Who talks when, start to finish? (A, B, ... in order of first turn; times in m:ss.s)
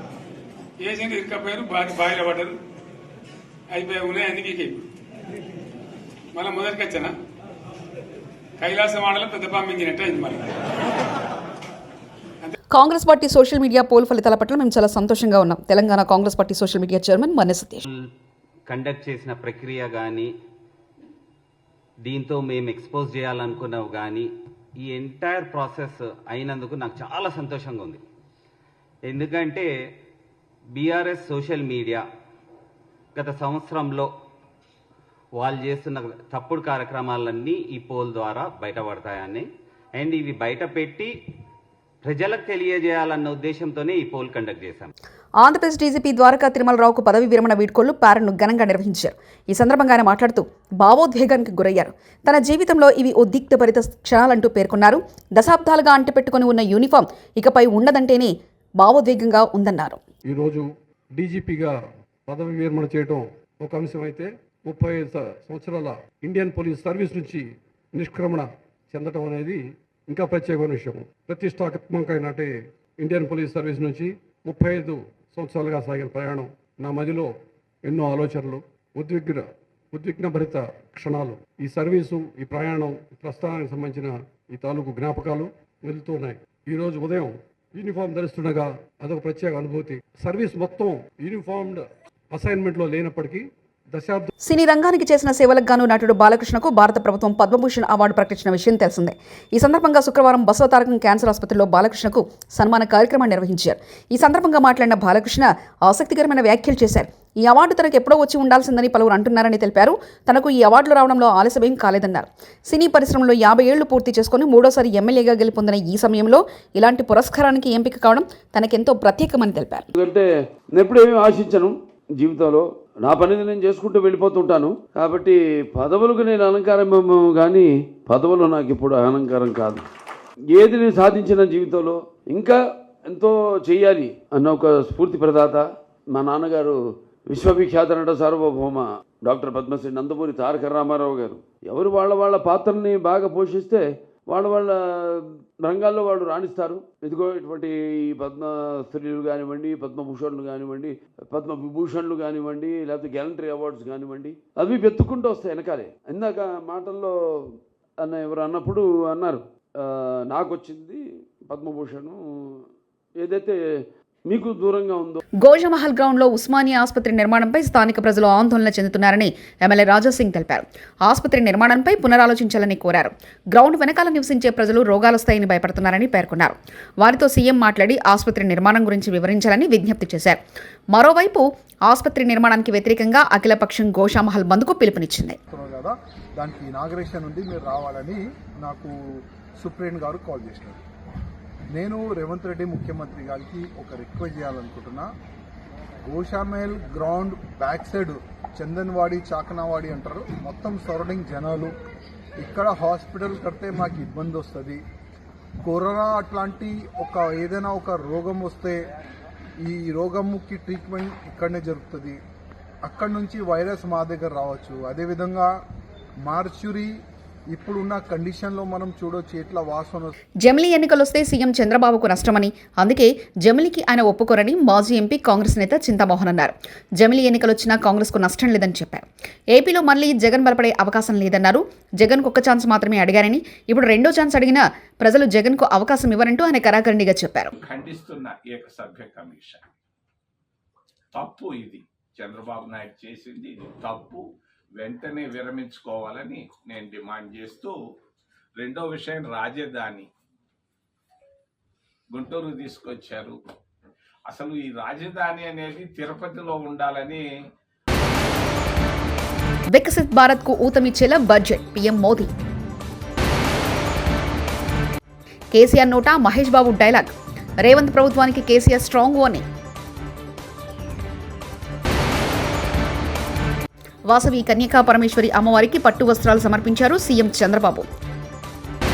0:00.8-0:02.6 A
0:03.7-0:04.8 A
0:06.4-0:07.1 A
0:08.6-0:10.5 A
0:12.7-0:17.8 B
0:18.7-0:20.3 C
0:22.0-0:24.3 C
0:24.8-0:28.0 C
0:29.1-0:29.7 C
0:30.8-0:32.0 C
0:33.2-0:34.1 C
0:35.4-0:39.5 C
0:40.0-0:41.2 C
0:42.0-0:44.9 C
0:45.4-1:00.0 B
1:00.3-1:00.6 D
1:01.2-1:01.7 D
1:02.3-1:07.4 D
1:08.0-1:12.5 D
1:13.0-1:17.3 D
1:17.8-1:34.3 D
1:34.4-1:59.9 B
2:00.0-2:09.9 E
2:10.5-2:37.1 E
2:38.0-2:42.2 E
2:43.2-2:43.6 E
2:44.3-2:45.2 E
2:45.4-3:00.4 B
3:00.9-3:05.4 B
3:05.5-3:08.9 F
3:09.6-3:10.8 F
3:11.7-3:15.1 F
3:16.1-3:21.7 F
3:22.4-3:24.8 F
3:25.6-3:28.8 F
3:29.6-3:32.2 F
3:32.8-3:35.5 F
3:36.2-3:36.9 F
3:37.5-3:40.1 F
3:40.4-3:57.5 B
3:57.6-3:59.6 G
4:01.1-4:04.2 G
4:04.8-4:07.8 G
4:08.6-4:10.1 G
4:12.1-4:13.4 G
4:14.3-4:17.2 G
4:19.7-4:22.3 B
4:25.5-4:27.1 B
4:27.6-4:29.4 B
4:34.1-4:37.9 B